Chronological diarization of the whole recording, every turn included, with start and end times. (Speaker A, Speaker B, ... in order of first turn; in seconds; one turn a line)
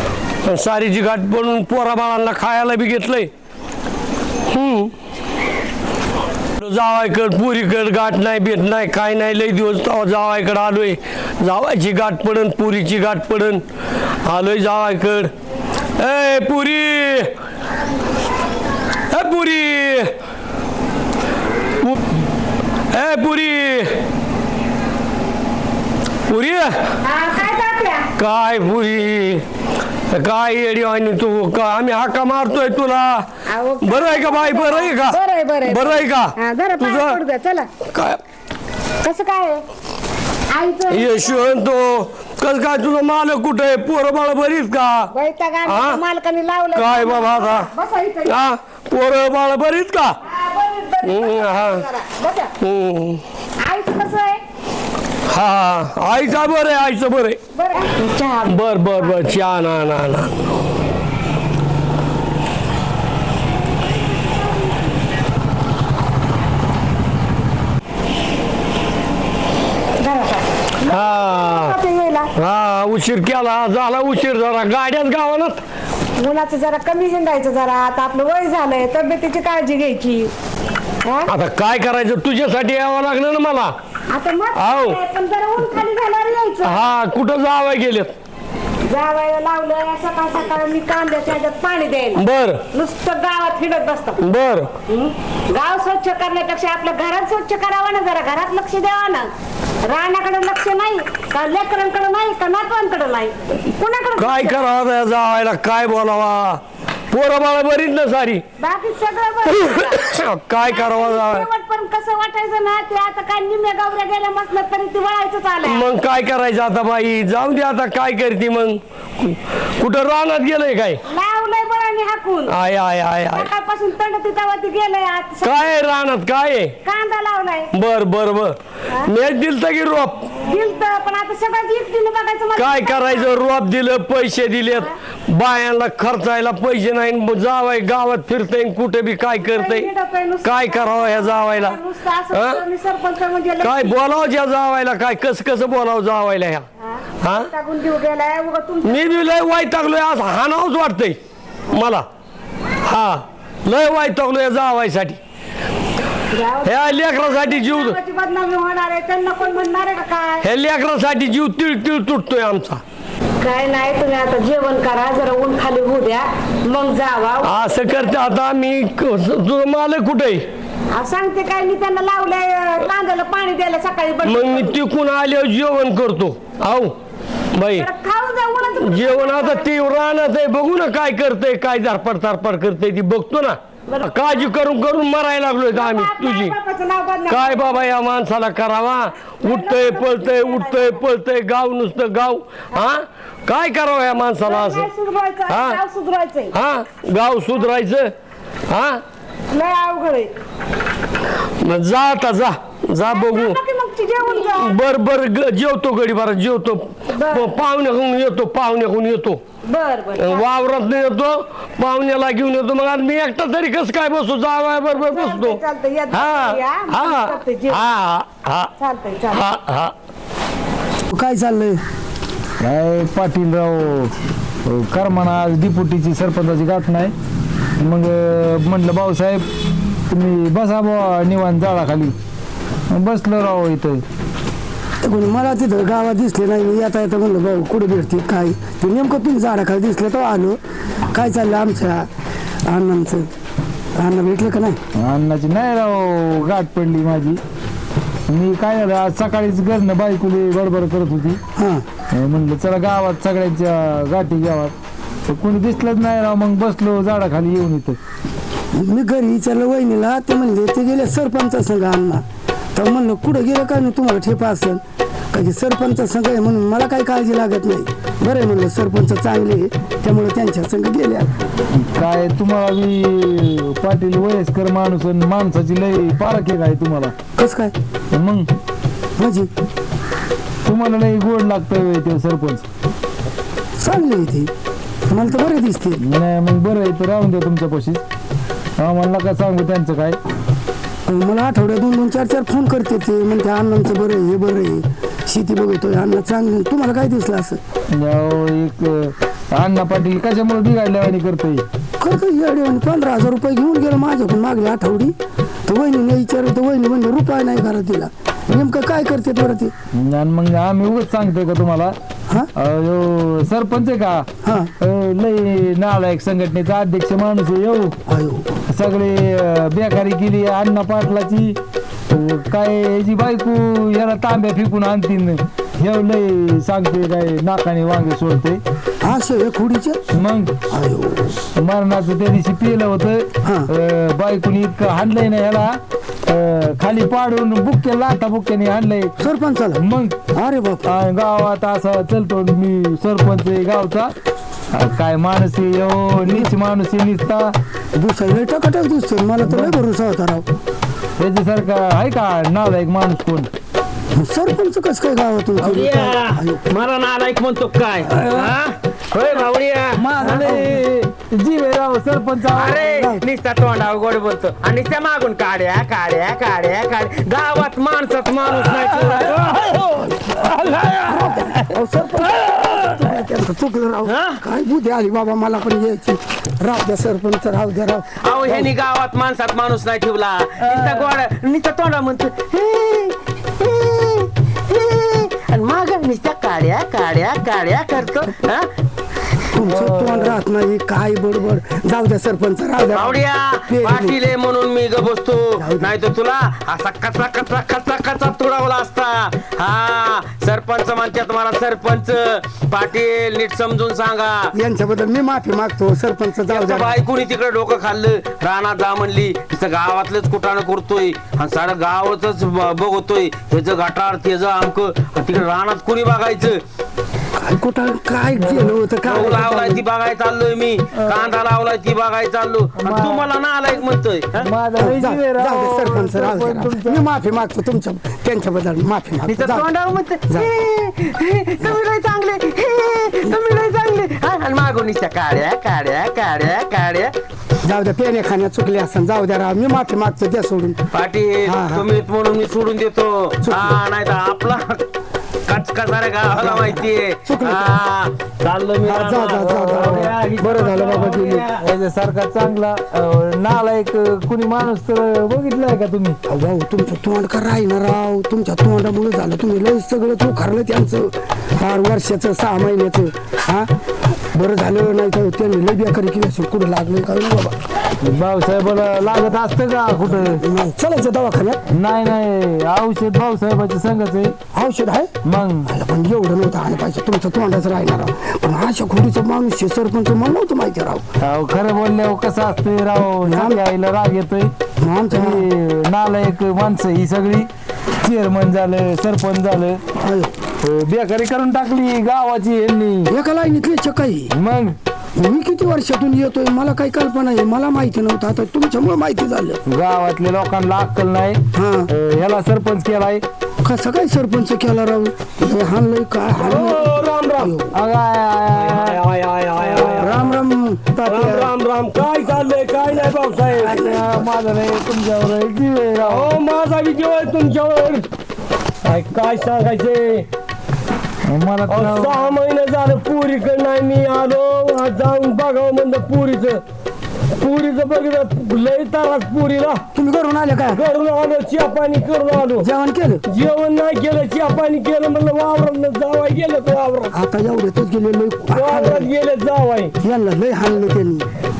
Speaker A: 0.4-3.3
Speaker A: 4.5-4.9
Speaker A: 6.6-13.6
Speaker A: 14.2-15.3
Speaker A: 16.0-17.3
Speaker A: 19.1-20.1
Speaker A: 22.9-24.0
Speaker A: 26.3-26.9
Speaker B: 27.0-28.1
Speaker A: 28.2-29.4
Speaker A: 30.1-33.3
Speaker B: 33.5-37.7
Speaker A: 33.8-37.2
Speaker A: 37.9-38.2
Speaker B: 39.0-39.6
Speaker B: 40.5-41.5
Speaker A: 40.9-45.1
Speaker B: 45.1-48.4
Speaker A: 45.6-46.0
Speaker A: 46.7-47.7
Speaker A: 48.2-50.2
Speaker B: 50.2-52.5
Speaker A: 51.0-51.8
Speaker A: 52.6-53.2
Speaker B: 53.6-54.4
Speaker A: 55.3-57.4
Speaker B: 57.5-59.4
Speaker A: 58.5-60.5
Speaker B: 70.0-72.3
Speaker A: 70.9-71.8
Speaker A: 72.3-75.6
Speaker B: 76.2-80.3
Speaker B: 81.0-81.3
Speaker A: 81.3-83.7
Speaker B: 84.1-86.9
Speaker A: 84.5-85.0
Speaker A: 86.6-88.1
Speaker B: 88.8-94.2
Speaker A: 92.2-92.6
Speaker A: 94.2-94.7
Speaker B: 94.9-99.3
Speaker B: 99.8-104.6
Speaker A: 104.2-108.4
Speaker B: 108.6-110.1
Speaker A: 109.7-111.5
Speaker B: 110.6-115.9
Speaker A: 115.6-121.0
Speaker B: 121.0-122.5
Speaker A: 122.5-123.5
Speaker B: 123.3-125.8
Speaker A: 125.4-126.8
Speaker B: 126.8-127.7
Speaker A: 127.7-130.3
Speaker B: 130.4-133.3
Speaker A: 132.6-139.9
Speaker B: 139.4-144.0
Speaker A: 140.4-141.8
Speaker A: 142.3-142.6
Speaker A: 143.6-146.7
Speaker B: 146.8-149.1
Speaker A: 147.2-147.5
Speaker A: 148.8-151.2
Speaker A: 151.7-152.0
Speaker A: 152.8-155.2
Speaker B: 156.3-160.4
Speaker A: 156.6-158.0
Speaker A: 160.4-162.8
Speaker B: 163.4-167.5
Speaker A: 167.4-170.4
Speaker B: 170.9-174.8
Speaker A: 174.2-176.9
Speaker A: 177.5-177.9
Speaker B: 177.7-179.7
Speaker A: 178.8-186.5
Speaker B: 183.9-184.5
Speaker B: 185.7-187.9
Speaker A: 187.3-194.9
Speaker B: 189.4-191.0
Speaker B: 194.4-196.5
Speaker A: 195.5-195.8
Speaker A: 196.5-198.1
Speaker A: 198.7-199.0
Speaker B: 199.5-200.3
Speaker A: 201.6-203.6
Speaker B: 203.0-204.8
Speaker A: 204.3-209.4
Speaker B: 207.1-207.5
Speaker B: 209.6-210.5
Speaker A: 210.2-215.6
Speaker B: 214.9-217.8
Speaker A: 216.1-218.7
Speaker B: 218.8-219.5
Speaker A: 219.3-219.9
Speaker C: 221.1-221.8
Speaker D: 222.6-224.1
Speaker D: 224.6-227.1
Speaker D: 227.8-229.4
Speaker D: 230.1-232.1
Speaker D: 232.9-234.0
Speaker C: 235.0-240.6
Speaker C: 241.1-242.1
Speaker C: 242.7-243.3
Speaker C: 244.0-244.8
Speaker D: 245.0-247.4
Speaker D: 248.3-251.4
Speaker C: 251.6-251.8
Speaker D: 252.1-254.7
Speaker D: 255.3-258.0
Speaker C: 258.7-262.2
Speaker C: 262.7-271.3
Speaker D: 271.8-277.1
Speaker C: 277.4-277.7
Speaker D: 278.1-278.5
Speaker C: 279.2-279.5
Speaker D: 280.6-282.6
Speaker C: 283.8-284.5
Speaker C: 285.1-286.0
Speaker D: 286.0-288.0
Speaker D: 288.8-290.2
Speaker C: 291.1-297.6
Speaker D: 297.9-301.6
Speaker C: 302.0-305.1
Speaker C: 305.7-309.7
Speaker D: 309.9-311.9
Speaker D: 312.6-314.3
Speaker C: 314.4-314.7
Speaker D: 314.8-317.9
Speaker C: 318.1-318.5
Speaker D: 318.7-321.6
Speaker D: 322.1-328.6
Speaker C: 329.0-330.0
Speaker D: 330.1-330.5
Speaker C: 330.7-331.4
Speaker D: 331.6-339.1
Speaker C: 333.4-333.7
Speaker C: 339.2-341.0
Speaker D: 339.8-340.2
Speaker D: 340.9-344.1
Speaker D: 344.7-347.5
Speaker C: 346.2-346.5
Speaker C: 347.9-350.4
Speaker D: 349.4-349.8
Speaker D: 351.2-353.5
Speaker C: 354.1-356.6
Speaker E: 355.6-360.5
Speaker D: 360.0-362.8
Speaker C: 360.2-360.8
Speaker E: 362.5-369.6
Speaker C: 362.8-363.2
Speaker C: 369.8-378.7
Speaker E: 374.1-374.4
Speaker E: 378.2-388.7
Speaker D: 380.6-381.1
Speaker C: 389.5-394.2
Speaker D: 389.7-390.4
Speaker E: 392.9-404.5
Speaker C: 395.6-395.9
Speaker C: 404.5-407.0
Speaker E: 406.5-416.6
Speaker C: 417.4-419.8
Speaker E: 419.0-424.5
Speaker D: 420.9-421.3
Speaker D: 422.8-423.2
Speaker D: 424.4-427.1
Speaker C: 424.8-429.7
Speaker E: 429.2-437.1
Speaker C: 437.6-440.8
Speaker E: 440.9-444.8
Speaker C: 441.4-441.9
Speaker C: 443.4-443.8
Speaker E: 445.5-451.6
Speaker C: 446.3-447.7
Speaker C: 448.8-451.5
Speaker D: 449.3-450.1
Speaker D: 451.6-456.2
Speaker C: 456.3-463.7
Speaker C: 464.3-467.6
Speaker D: 468.0-470.4
Speaker C: 470.1-471.6
Speaker D: 471.7-474.4
Speaker C: 474.5-481.0
Speaker D: 475.2-475.7
Speaker D: 481.2-484.5
Speaker C: 483.2-483.6
Speaker C: 484.8-485.5
Speaker D: 485.1-487.5
Speaker D: 488.0-489.8
Speaker C: 490.0-490.3
Speaker D: 490.6-493.1
Speaker C: 493.1-494.3
Speaker D: 494.3-494.7
Speaker C: 495.2-499.6
Speaker D: 499.7-503.2
Speaker C: 501.5-501.9
Speaker C: 503.6-507.7
Speaker A: 506.4-507.6
Speaker D: 507.7-509.0
Speaker A: 508.5-510.4
Speaker C: 509.9-511.5
Speaker A: 511.0-513.8
Speaker C: 513.5-514.4
Speaker D: 513.7-516.3
Speaker A: 516.0-518.0
Speaker A: 518.8-520.3
Speaker D: 521.3-522.1
Speaker A: 521.7-526.6
Speaker A: 527.4-529.8
Speaker C: 529.9-530.8
Speaker A: 530.7-532.7
Speaker C: 532.6-533.2
Speaker A: 533.3-537.1
Speaker C: 537.1-539.1
Speaker A: 538.5-539.9
Speaker C: 540.0-541.3